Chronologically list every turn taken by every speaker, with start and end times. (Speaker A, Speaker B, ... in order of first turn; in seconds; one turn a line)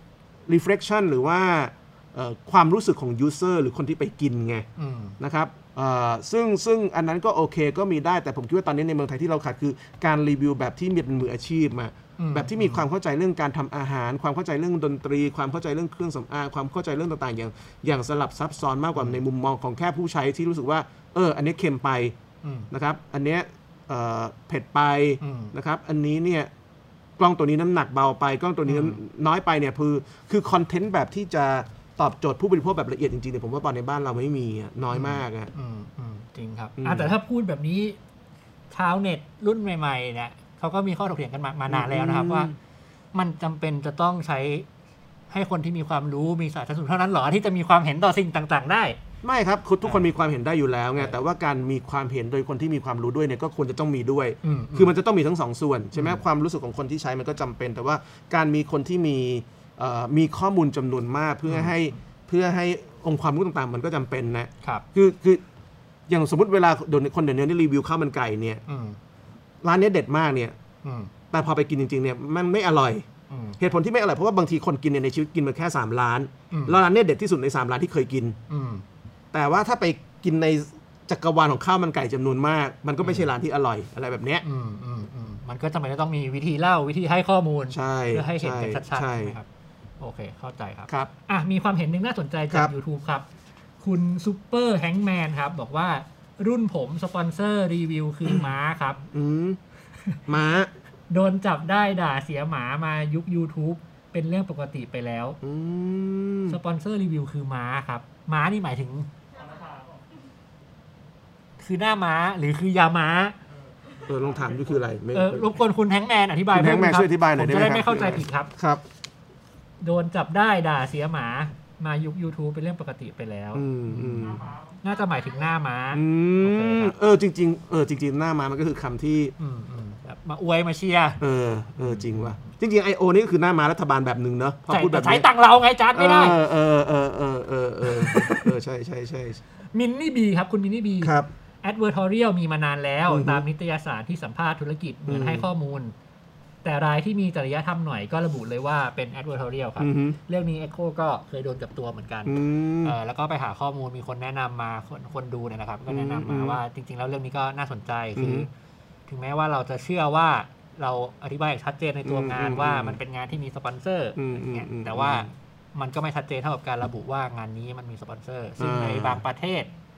Speaker A: 0.5-4.7
Speaker B: 4.8-5.2
Speaker A: 5.2-22.2
Speaker B: 12.2-12.8
Speaker B: 22.4-22.7
Speaker A: 22.7-26.5
Speaker B: 25.2-25.5
Speaker A: 27.2-35.5
Speaker B: 28.7-29.0
Speaker B: 34.9-38.0
Speaker A: 36.8-37.1
Speaker B: 38.7-42.5
Speaker A: 41.7-42.5
Speaker B: 43.1-44.7
Speaker B: 45.3-49.0
Speaker A: 49.2-65.4
Speaker B: 54.4-54.9
Speaker B: 56.0-56.2
Speaker B: 61.5-61.8
Speaker A: 66.1-68.6
Speaker B: 68.7-69.0
Speaker A: 69.6-70.6
Speaker B: 70.8-71.1
Speaker A: 71.3-73.1
Speaker B: 73.3-73.6
Speaker A: 73.6-78.4
Speaker B: 76.5-76.8
Speaker B: 78.5-78.8
Speaker A: 79.3-84.4
Speaker B: 83.0-83.3
Speaker B: 84.4-89.5
Speaker A: 87.7-89.3
Speaker B: 90.0-93.2
Speaker B: 93.8-99.0
Speaker A: 99.1-99.6
Speaker A: 100.3-100.7
Speaker B: 101.1-105.4
Speaker A: 105.4-106.6
Speaker B: 106.5-109.1
Speaker B: 111.6-113.4
Speaker A: 114.0-115.5
Speaker B: 115.1-118.5
Speaker A: 116.5-118.8
Speaker B: 119.8-127.0
Speaker A: 123.5-124.5
Speaker A: 125.9-129.3
Speaker B: 129.4-131.2
Speaker A: 131.2-135.3
Speaker B: 131.8-132.6
Speaker B: 134.7-136.4
Speaker A: 135.9-139.4
Speaker B: 137.8-138.5
Speaker B: 139.7-145.9
Speaker A: 141.0-141.3
Speaker A: 143.1-143.4
Speaker A: 145.1-145.5
Speaker B: 146.6-158.5
Speaker A: 149.8-150.2
Speaker A: 152.3-153.0
Speaker A: 155.9-156.6
Speaker A: 158.2-158.5
Speaker B: 159.1-169.7
Speaker A: 162.1-163.0
Speaker A: 164.2-165.3
Speaker A: 168.6-169.2